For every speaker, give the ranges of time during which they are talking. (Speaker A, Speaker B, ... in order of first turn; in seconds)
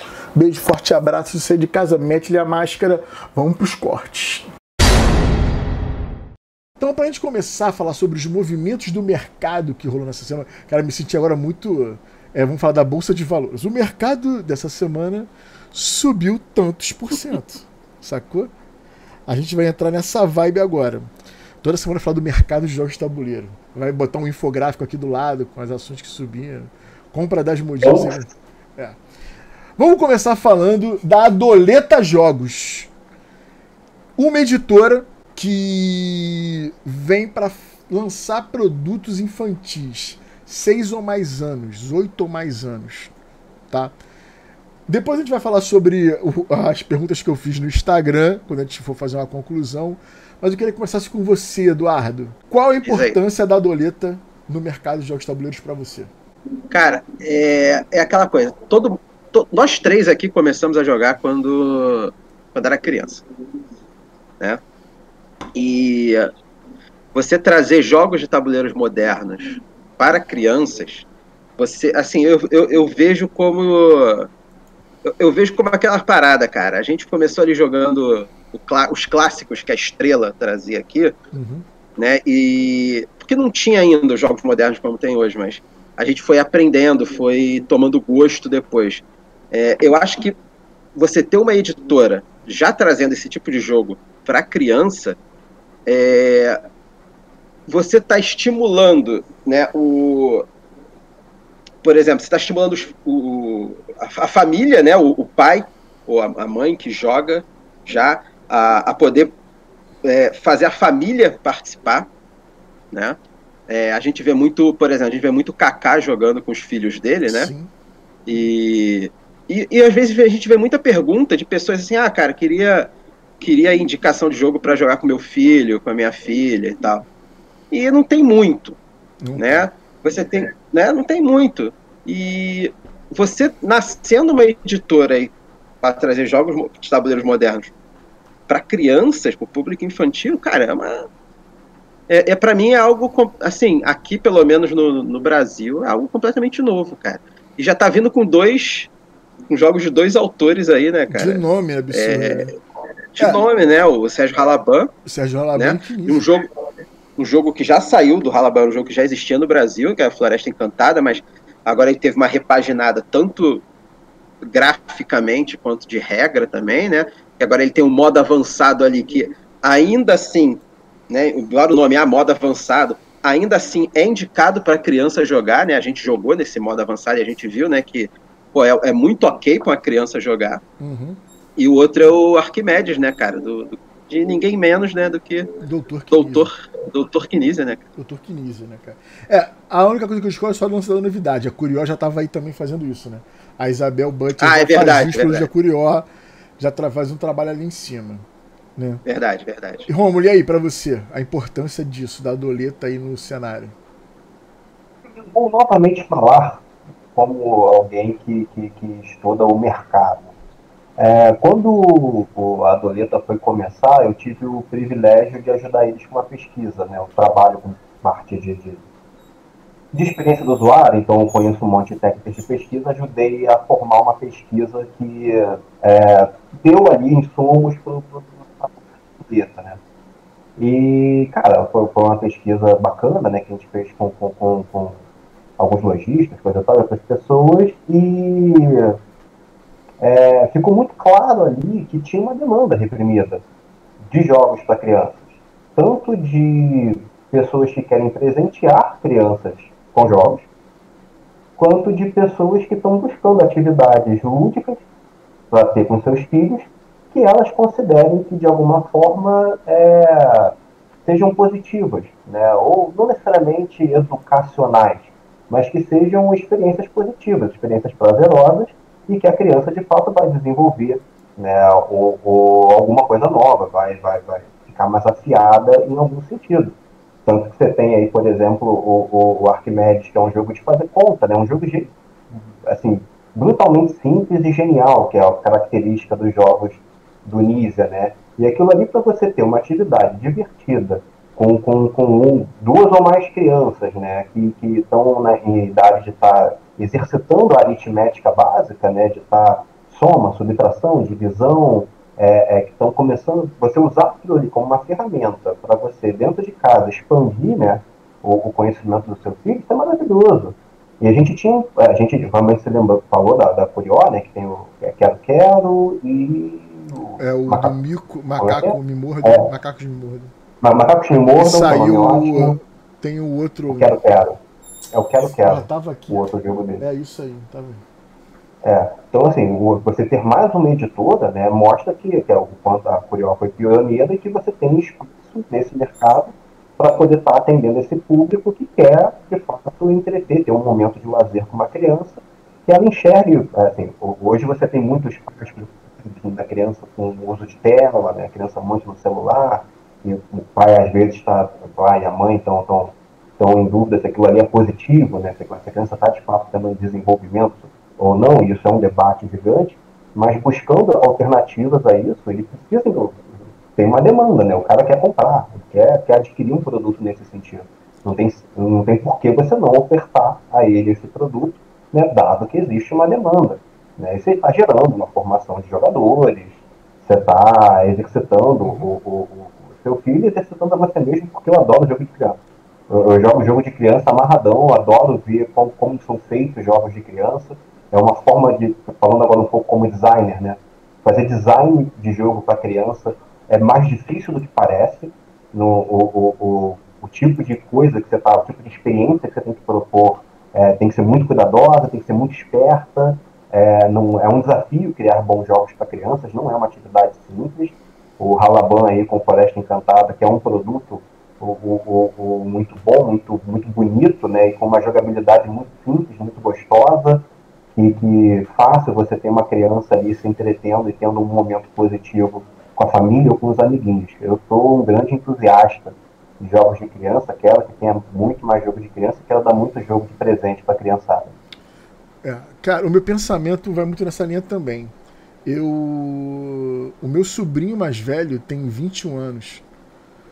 Speaker A: 0.3-4.5, 6.8-18.5, 19.3-21.1, 21.6-29.0, 29.8-32.9, 34.2-43.1, 44.9-56.1, 81.3-81.7, 117.3-117.7, 129.2-129.7, 151.1-152.5, 155.1-156.3, 180.8-181.2, 185.6-186.5, 188.0-196.1, 196.6-198.2, 198.8-199.0, 199.9-203.8, 317.2-320.3, 321.4-324.0, 325.3-326.3, 326.8-327.8, 378.6-378.9, 432.2-434.9, 435.4-439.6
Speaker B: 27.8-28.2, 205.1-210.3, 211.0-218.8, 219.9-229.8, 230.6-235.0, 235.6-239.0, 240.0-243.4, 244.0-245.2, 245.8-250.5, 251.6-254.8, 255.5-276.7, 277.3-317.7, 318.4-319.5, 320.6-322.6, 323.7-324.4, 324.9-326.8, 328.6-382.4, 382.9-431.4
Speaker C: 52.9-53.2, 56.7-63.2, 65.5-66.3, 67.1-71.1, 71.6-74.3, 75.1-81.2, 82.0-90.4, 91.0-95.2, 95.9-96.6, 97.7-100.5, 101.8-109.3, 110.0-112.1, 112.9-117.5, 118.3-127.1, 127.7-128.8, 129.4-137.7, 138.5-141.1, 142.1-148.9, 149.5-152.5, 153.2-154.9, 155.6-156.4, 157.2-163.7, 164.4-180.6, 181.6-185.5, 186.1-187.8, 194.4-195.5, 199.1-199.9